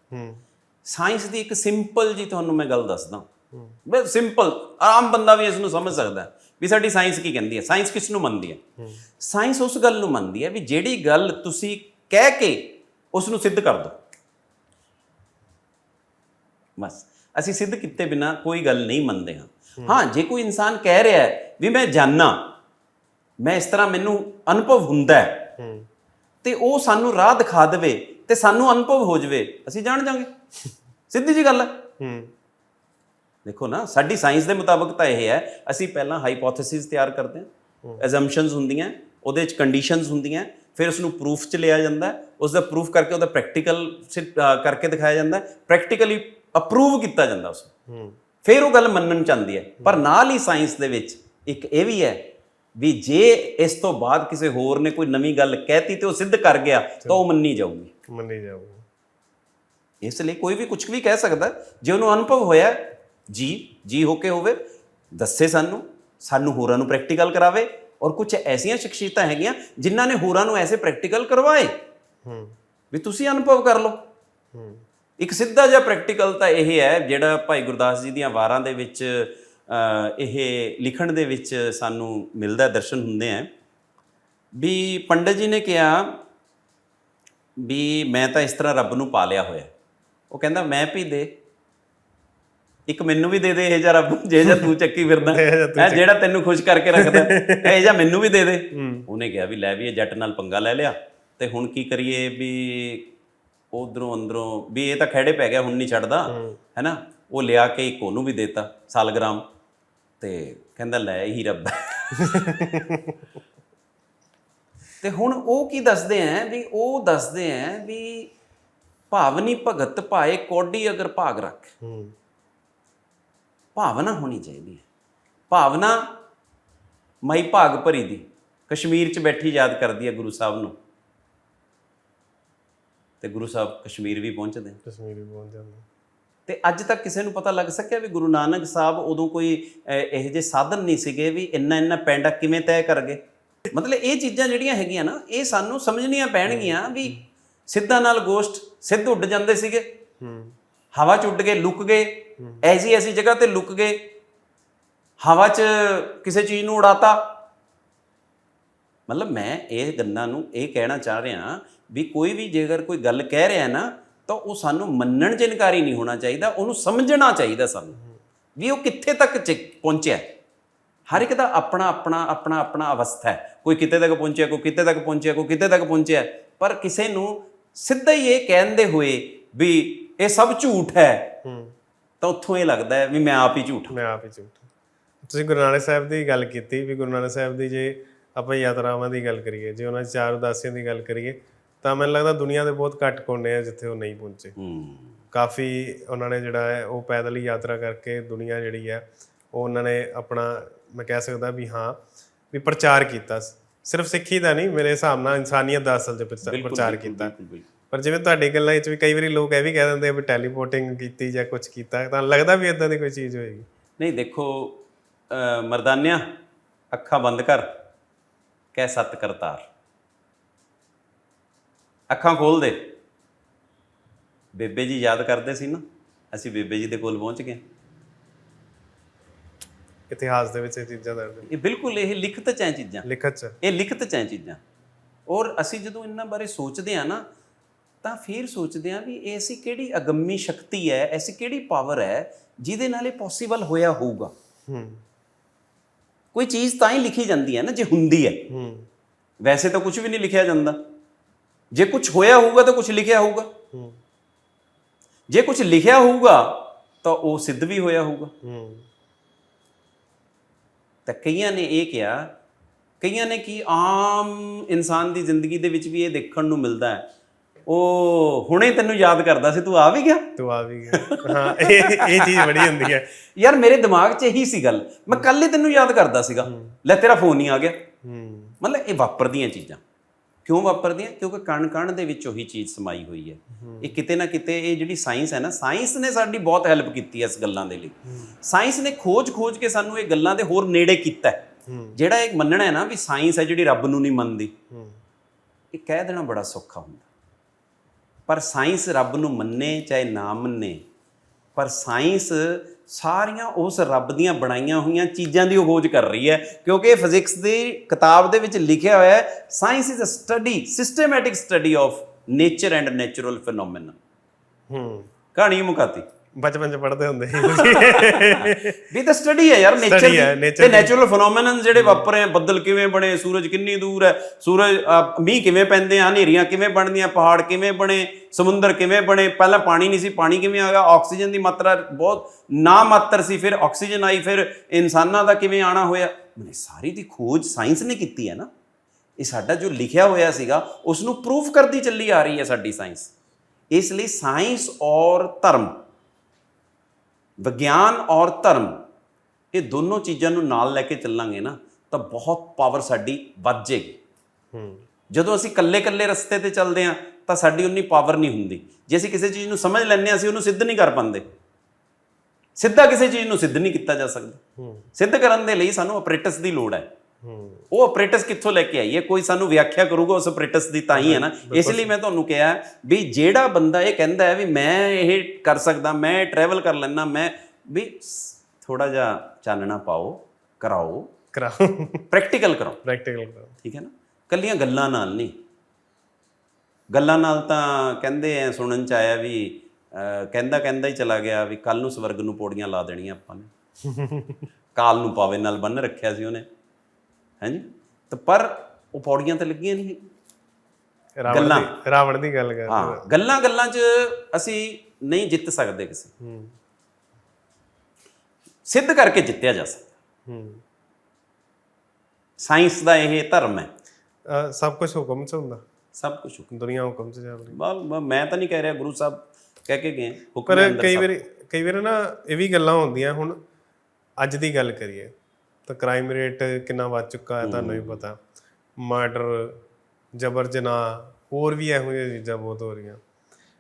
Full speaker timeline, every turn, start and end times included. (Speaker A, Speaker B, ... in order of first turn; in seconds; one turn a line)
Speaker A: 0.1-0.4
Speaker B: 0.9-3.3
Speaker A: 3.5-3.8
Speaker B: 3.9-8.6
Speaker B: 9.2-14.0
Speaker B: 16.8-22.5
Speaker B: 23.4-25.5
Speaker A: 25.6-25.9
Speaker B: 26.4-30.3
Speaker B: 31.1-31.8
Speaker A: 32.0-32.3
Speaker B: 33.5-47.7
Speaker A: 47.9-48.2
Speaker B: 48.4-52.2
Speaker B: 52.8-57.9
Speaker A: 58.1-58.9
Speaker B: 60.0-64.6
Speaker B: 65.1-71.7
Speaker A: 72.2-72.5
Speaker B: 72.9-74.0
Speaker A: 74.5-74.8
Speaker B: 75.2-83.5
Speaker B: 84.5-86.2
Speaker B: 87.6-89.7
Speaker B: 90.3-91.3
Speaker B: 92.9-103.1
Speaker A: 95.2-96.0
Speaker A: 97.0-97.9
Speaker A: 98.7-99.1
Speaker B: 103.7-109.4
Speaker A: 106.3-106.6
Speaker B: 110.2-112.5
Speaker A: 112.2-113.2
Speaker B: 115.0-118.3
Speaker B: 119.1-121.8
Speaker A: 121.8-122.1
Speaker B: 123.8-124.8
Speaker B: 125.5-126.2
Speaker B: 127.2-130.8
Speaker B: 133.2-134.8
Speaker A: 134.8-135.8
Speaker B: 136.5-143.2
Speaker B: 143.7-149.9
Speaker A: 146.5-147.1
Speaker A: 150.2-150.6
Speaker B: 150.9-154.0
Speaker B: 155.2-157.3
Speaker B: 159.1-168.0
Speaker B: 168.6-170.3
Speaker B: 171.1-181.3
Speaker A: 181.4-181.8
Speaker B: 182.2-183.9
Speaker A: 183.9-184.7
Speaker A: 185.3-194.6
Speaker B: 194.6-195.2
Speaker A: 195.3-207.3
Speaker B: 206.4-207.7
Speaker A: 207.9-213.7
Speaker B: 214.0-216.3
Speaker B: 216.9-217.7
Speaker B: 218.7-219.7
Speaker B: 222.1-222.9
Speaker B: 224.5-227.6
Speaker A: 230.1-231.5
Speaker B: 231.5-233.1
Speaker A: 233.0-233.6
Speaker B: 233.6-234.6
Speaker B: 235.3-237.2
Speaker B: 238.0-244.3
Speaker A: 244.7-245.0
Speaker B: 246.3-248.4
Speaker A: 248.5-248.9
Speaker B: 249.4-250.8
Speaker B: 251.7-253.5
Speaker A: 253.7-254.0
Speaker B: 255.3-258.3
Speaker A: 258.4-258.9
Speaker B: 261.1-262.3
Speaker B: 263.0-267.0
Speaker B: 267.7-270.3
Speaker A: 270.4-273.1
Speaker B: 270.9-277.8
Speaker A: 276.5-276.8
Speaker A: 278.0-278.6
Speaker B: 278.6-279.8
Speaker B: 280.4-291.4
Speaker A: 283.6-284.0
Speaker A: 291.7-292.0
Speaker B: 292.0-294.5
Speaker A: 294.7-295.0
Speaker B: 295.7-297.1
Speaker B: 298.3-300.8
Speaker B: 301.6-314.0
Speaker A: 314.7-315.1
Speaker B: 315.4-316.1
Speaker A: 316.4-318.8
Speaker B: 317.4-338.5
Speaker A: 319.8-320.9
Speaker A: 321.8-322.1
Speaker B: 339.2-343.1
Speaker B: 343.7-345.8
Speaker B: 347.4-348.8
Speaker B: 349.5-354.0
Speaker A: 354.5-354.8
Speaker B: 355.1-361.2
Speaker B: 362.6-364.4
Speaker A: 364.6-364.9
Speaker B: 365.0-366.9
Speaker A: 367.2-367.7
Speaker B: 367.7-381.1
Speaker A: 370.9-371.9
Speaker A: 381.3-382.1
Speaker B: 382.1-382.8
Speaker A: 382.8-383.5
Speaker B: 383.6-385.3
Speaker B: 386.9-393.5
Speaker A: 393.9-394.4
Speaker B: 394.8-396.4
Speaker B: 397.4-400.0
Speaker A: 401.2-403.0
Speaker B: 401.3-401.7
Speaker B: 402.7-406.1
Speaker A: 406.2-406.6
Speaker B: 408.7-409.9
Speaker A: 410.3-410.6
Speaker B: 412.4-413.7
Speaker A: 414.3-415.6
Speaker B: 415.9-416.5
Speaker A: 416.5-417.6
Speaker B: 417.5-421.1
Speaker A: 420.5-423.4
Speaker A: 424.2-425.1
Speaker A: 425.7-428.2
Speaker B: 427.4-428.0
Speaker A: 428.8-429.6
Speaker A: 430.2-433.0